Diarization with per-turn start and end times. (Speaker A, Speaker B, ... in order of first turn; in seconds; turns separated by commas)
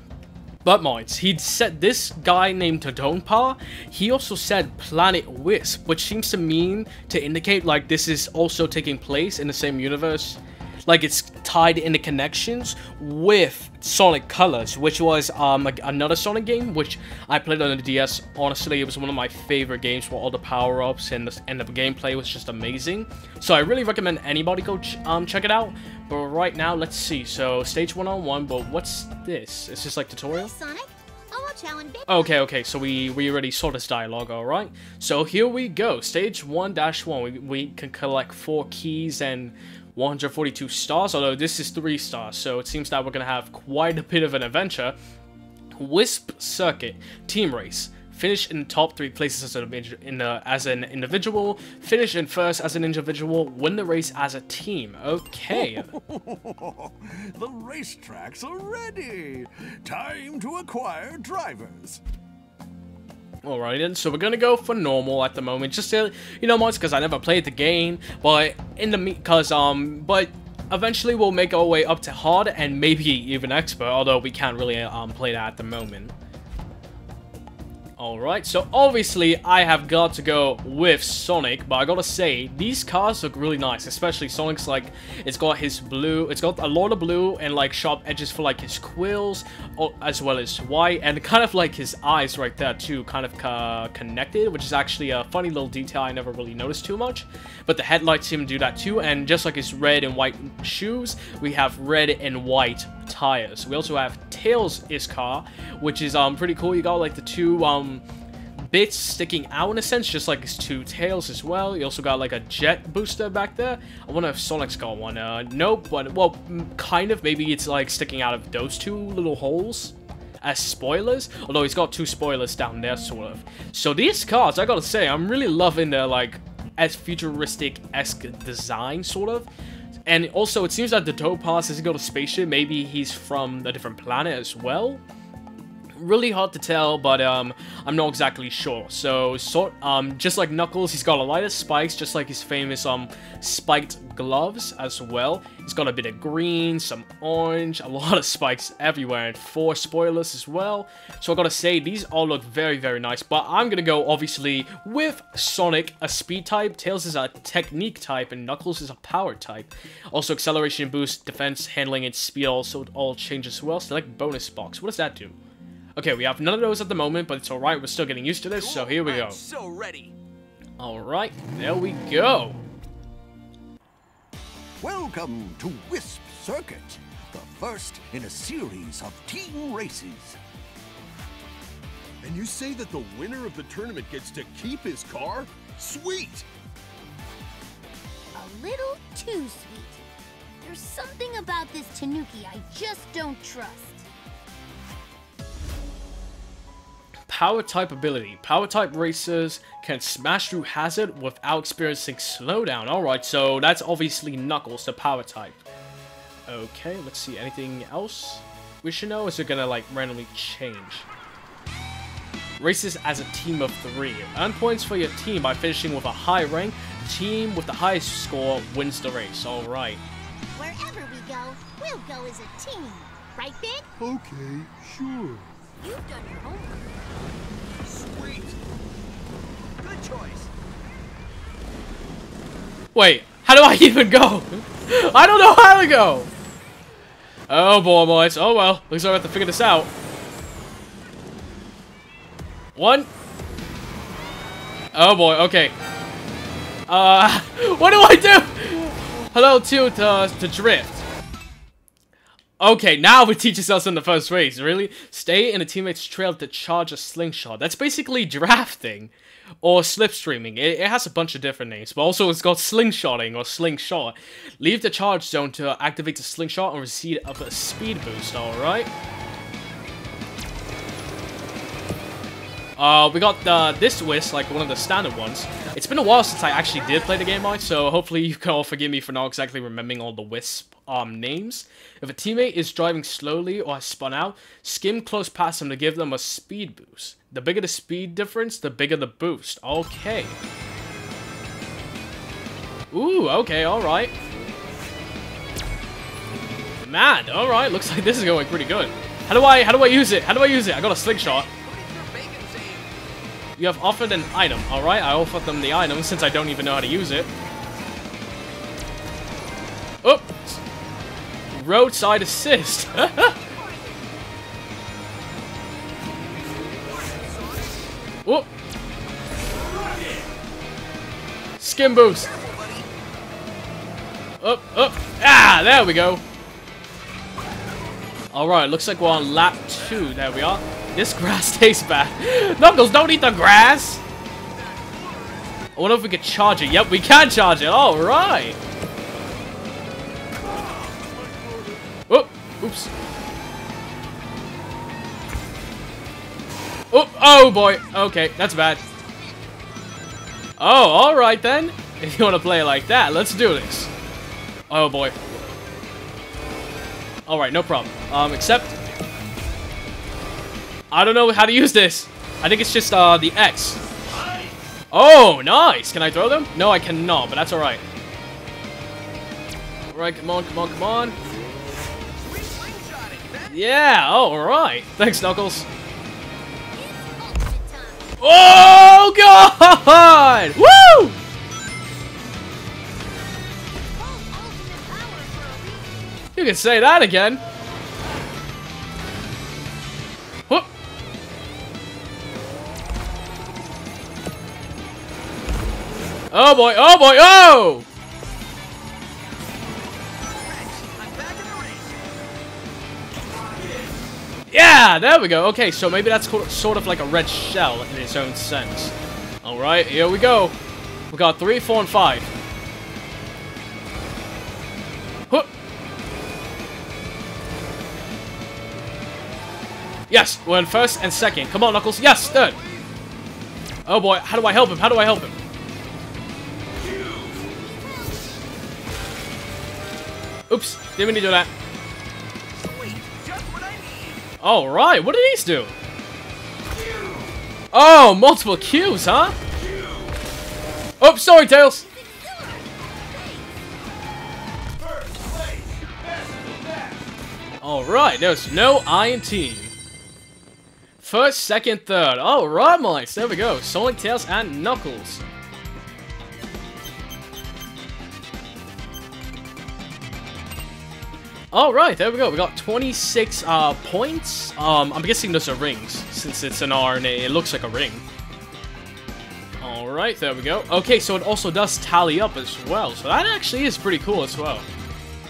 Speaker A: 0.6-30.5, Speaker B: 30.3-32.4, Speaker A: 32.1-45.0, Speaker A: 45.7-55.9, Speaker C: 55.5-62.0, Speaker A: 63.4-76.1, Speaker A: 78.0-108.0, Speaker A: 108.6-129.5, Speaker A: 130.1-135.0, Speaker A: 136.0-165.4, Speaker A: 166.0-169.4, Speaker D: 168.5-170.2, Speaker A: 170.8-172.6, Speaker C: 174.8-180.4, Speaker E: 182.2-186.5, Speaker F: 188.3-190.0, Speaker F: 190.6-194.1, Speaker A: 197.3-205.6, Speaker A: 206.5-211.1, Speaker A: 212.6-220.0, Speaker B: 220.5-223.9, Speaker G: 224.0-225.5, Speaker F: 225.8-226.9, Speaker D: 227.9-228.5, Speaker E: 228.0-228.6, Speaker D: 229.8-230.5, Speaker A: 232.9-236.3, Speaker A: 237.5-239.9, Speaker A: 242.8-243.1, Speaker A: 244.9-245.7, Speaker A: 246.9-251.0, Speaker A: 252.6-268.9, Speaker A: 272.8-290.4, Speaker A: 292.9-294.1, Speaker A: 296.8-301.5, Speaker D: 301.2-302.9, Speaker A: 303.6-307.3, Speaker A: 310.0-310.6, Speaker A: 311.5-313.4, Speaker D: 313.2-314.0, Speaker D: 316.7-317.9, Speaker A: 321.6-322.3, Speaker D: 321.7-322.9, Speaker A: 324.4-326.2, Speaker A: 328.3-334.0, Speaker E: 334.5-335.5, Speaker A: 335.7-338.6, Speaker G: 341.0-341.9, Speaker A: 342.1-342.9, Speaker A: 346.9-348.8, Speaker A: 350.6-353.9, Speaker A: 354.7-355.4, Speaker A: 357.3-358.8, Speaker A: 360.9-363.8, Speaker A: 364.9-367.8, Speaker A: 369.9-371.2, Speaker D: 372.2-373.6, Speaker A: 373.5-375.7, Speaker F: 376.7-378.1, Speaker A: 378.2-381.2, Speaker F: 383.9-385.9, Speaker A: 386.4-387.4, Speaker A: 396.3-397.9, Speaker D: 400.2-401.9, Speaker A: 404.5-410.6, Speaker A: 411.1-412.3, Speaker A: 420.1-422.6, Speaker E: 422.1-422.9, Speaker A: 423.9-425.4, Speaker F: 427.5-428.4, Speaker A: 430.5-431.5, Speaker D: 432.5-434.2, Speaker A: 434.4-435.7, Speaker A: 437.7-439.4, Speaker D: 439.6-440.0, Speaker A: 441.0-441.8, Speaker F: 441.8-443.6, Speaker A: 447.6-449.7, Speaker A: 451.0-455.2, Speaker A: 461.5-468.0, Speaker A: 469.6-474.6